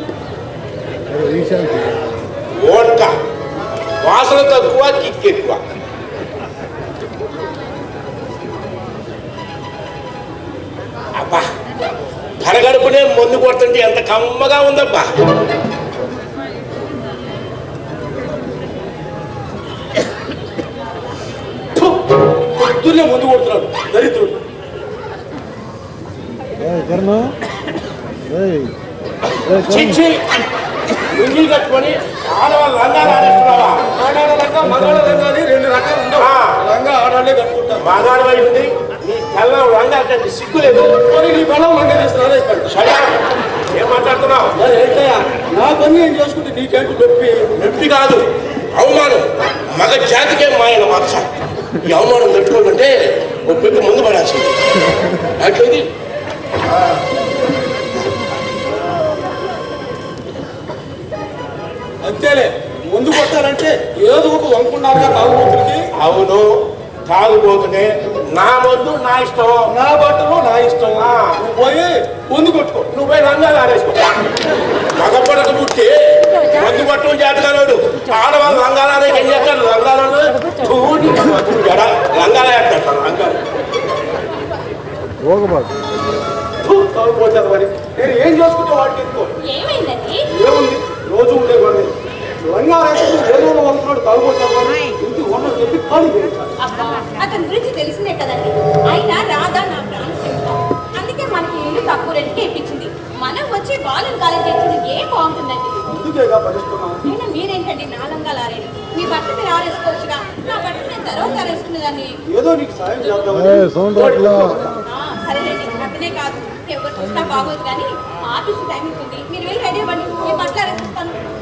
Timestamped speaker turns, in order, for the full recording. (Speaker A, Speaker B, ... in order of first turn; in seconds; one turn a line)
Speaker A: 2.5-3.1
Speaker A: 4.0-5.6
Speaker A: 11.2-11.5
Speaker A: 12.4-15.1
Speaker B: 21.8-24.4
Speaker A: 29.6-30.2
Speaker A: 31.1-33.8
Speaker B: 34.0-37.8
Speaker A: 36.2-36.5
Speaker A: 37.8-41.0
Speaker B: 41.0-42.7
Speaker A: 42.7-43.2
Speaker A: 43.7-44.5
Speaker B: 44.6-47.5
Speaker A: 47.5-51.2
Speaker A: 51.8-52.9
Speaker A: 53.5-54.6
Speaker A: 55.4-55.9
Speaker B: 62.0-65.8
Speaker A: 66.0-66.5
Speaker A: 67.1-69.7
Speaker B: 69.7-72.9
Speaker A: 70.9-71.3
Speaker A: 72.9-74.1
Speaker A: 75.0-83.4
Speaker C: 76.4-76.7
Speaker B: 86.6-89.3
Speaker C: 89.4-90.2
Speaker B: 90.3-91.9
Speaker B: 92.5-96.5
Speaker C: 96.6-105.8
Speaker B: 105.9-107.0
Speaker C: 107.0-112.1
Speaker B: 112.3-114.0
Speaker A: 113.9-114.7
Speaker C: 114.8-121.2